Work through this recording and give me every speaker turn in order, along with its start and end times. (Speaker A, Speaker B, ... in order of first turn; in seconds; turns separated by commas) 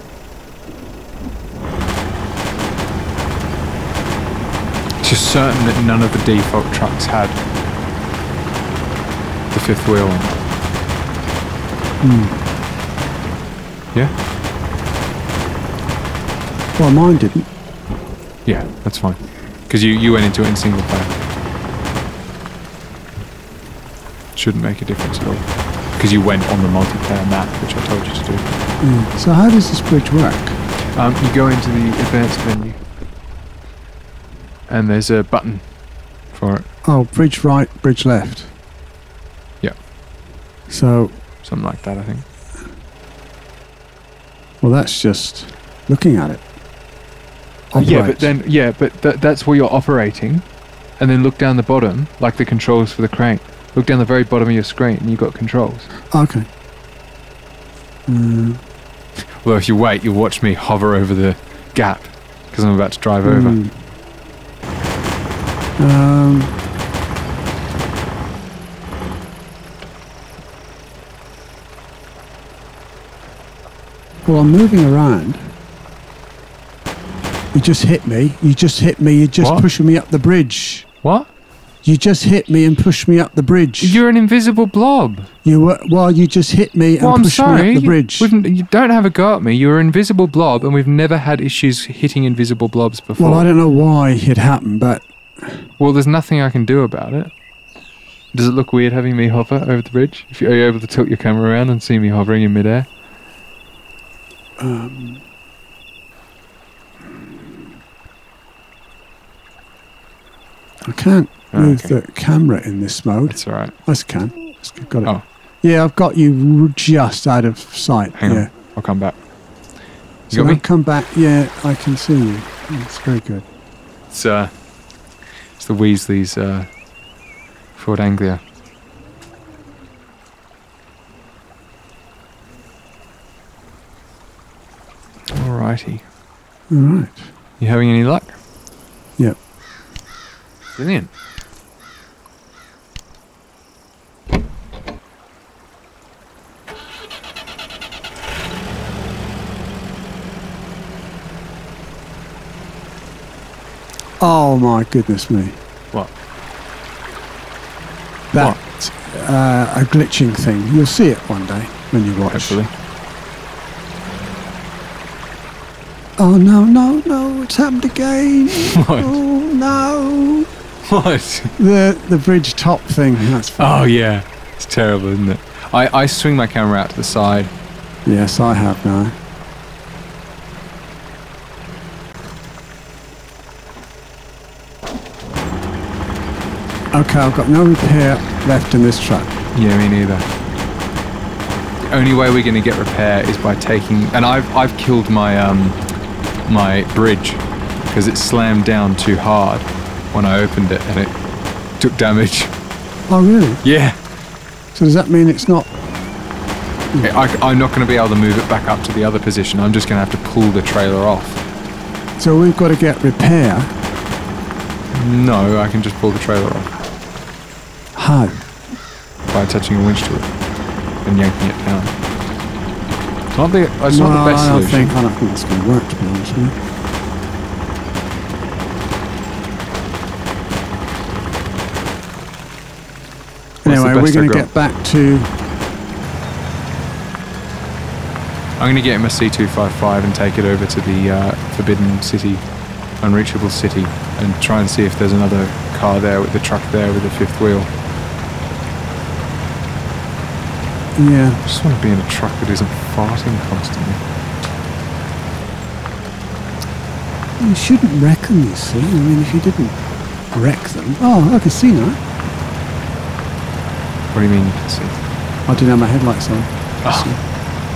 Speaker A: 5.0-7.4, Speaker A: 9.5-10.4, Speaker B: 12.0-12.4, Speaker B: 16.8-17.4, Speaker A: 18.4-21.1, Speaker A: 24.3-28.4, Speaker B: 28.8-30.6, Speaker A: 30.9-32.8, Speaker A: 34.7-36.7, Speaker B: 36.8-38.5, Speaker B: 40.7-41.2, Speaker A: 41.4-42.2, Speaker B: 44.6-46.4, Speaker B: 47.7-48.3, Speaker A: 47.7-55.9, Speaker B: 56.1-56.5, Speaker B: 58.1-58.6, Speaker A: 59.4-63.6, Speaker B: 63.2-63.9, Speaker B: 65.8-66.5, Speaker B: 74.2-75.5, Speaker B: 77.5-80.9, Speaker A: 79.4-79.7, Speaker A: 81.0-81.3, Speaker B: 81.8-84.0, Speaker A: 83.8-85.3, Speaker B: 85.4-88.3, Speaker A: 87.0-93.5, Speaker B: 93.2-95.7, Speaker A: 95.8-97.3, Speaker A: 98.3-102.9, Speaker B: 104.6-105.2, Speaker B: 110.8-118.5, Speaker A: 111.5-112.0, Speaker A: 113.3-113.7, Speaker A: 118.1-119.2, Speaker A: 120.3-120.6, Speaker B: 120.3-123.5, Speaker A: 124.1-124.6, Speaker A: 125.5-126.8, Speaker A: 127.7-128.4, Speaker A: 135.3-136.0, Speaker B: 136.7-137.3, Speaker A: 137.6-138.4, Speaker A: 140.7-141.1, Speaker B: 154.2-155.6, Speaker B: 158.3-162.6, Speaker A: 158.3-158.6, Speaker A: 162.3-162.7, Speaker B: 166.2-170.5, Speaker A: 168.7-169.1, Speaker A: 170.8-171.5, Speaker B: 171.6-173.8, Speaker A: 173.6-177.5, Speaker B: 178.1-179.1, Speaker B: 186.9-189.3, Speaker A: 189.5-190.2, Speaker A: 191.9-195.8, Speaker A: 196.4-201.2, Speaker A: 201.7-202.5, Speaker B: 203.1-203.6, Speaker A: 203.6-204.0, Speaker B: 204.7-205.7, Speaker A: 207.0-211.4, Speaker B: 212.2-213.7, Speaker A: 214.9-216.7, Speaker B: 217.9-218.4, Speaker A: 219.3-220.4, Speaker A: 221.0-221.9, Speaker A: 223.3-224.9, Speaker B: 223.9-226.6, Speaker B: 233.6-235.3, Speaker A: 233.6-234.5, Speaker A: 238.6-242.4, Speaker A: 243.0-247.7, Speaker B: 250.9-251.4, Speaker A: 251.4-254.0, Speaker B: 257.4-259.8, Speaker B: 260.3-262.0, Speaker A: 264.1-265.0, Speaker B: 265.5-267.2, Speaker A: 266.8-267.2